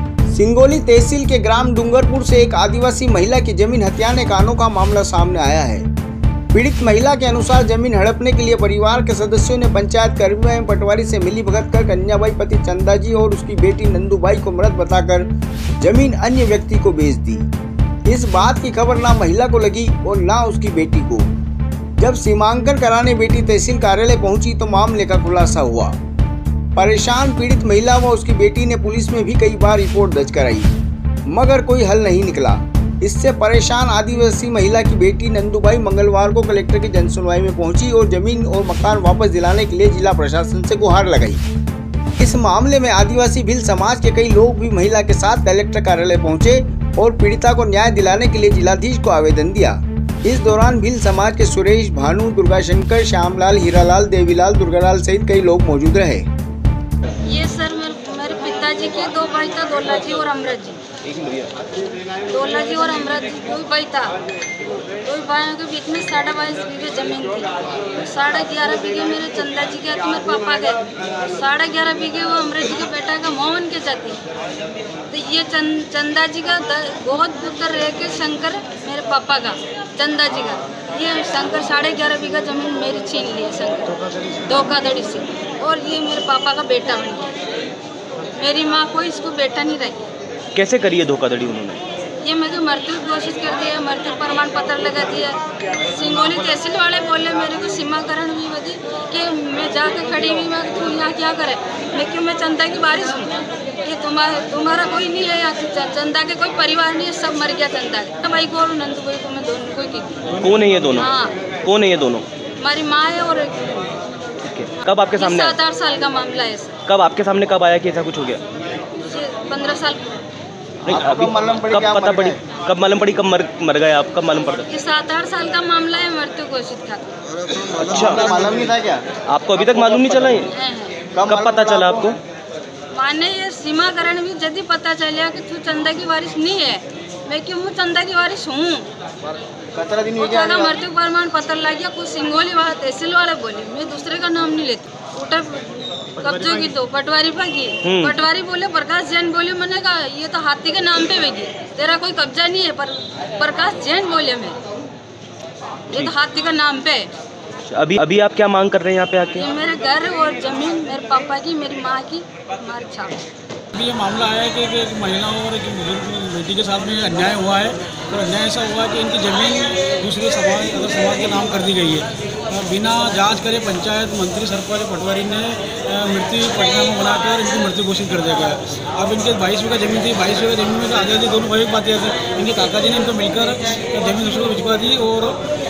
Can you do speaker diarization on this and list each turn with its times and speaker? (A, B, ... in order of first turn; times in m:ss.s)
0:00.3-0:05.9 A
0:06.5-0:15.3 A
0:15.8-0:17.5 A
0:18.1-0:21.3 A
0:22.0-0:25.9 A
0:26.8-0:30.8 A
0:31.3-0:41.4 A
0:42.2-0:56.3 A
0:57.2-1:00.8 B
1:01.0-1:01.5 C
1:02.3-1:04.1 B
1:05.0-1:14.2 B
1:15.1-1:23.9 B
1:24.4-1:27.3 B
1:28.4-1:30.0 B
1:30.5-1:31.8 C
1:32.2-1:50.3 B
1:50.4-1:51.1 C
1:51.0-1:51.3 B
1:51.6-1:52.2 C
1:52.6-1:54.0 B
1:54.4-1:55.6 C
1:55.2-1:56.8 B
1:56.8-1:58.4 C
1:58.9-2:00.1 B
2:00.8-2:04.7 C
2:00.9-2:02.4 A
2:04.7-2:07.0 B
2:07.6-2:09.0 A
2:07.8-2:08.3 C
2:09.2-2:10.5 C
2:09.6-2:10.4 A
2:10.5-2:11.0 B
2:11.1-2:12.1 A
2:11.2-2:12.2 C
2:12.9-2:18.9 B
2:19.7-2:20.8 A
2:20.2-2:34.6 B
2:27.8-2:28.2 C
2:35.9-2:37.1 B
2:37.6-2:39.5 C
2:39.3-2:43.1 B
2:43.7-3:05.4 D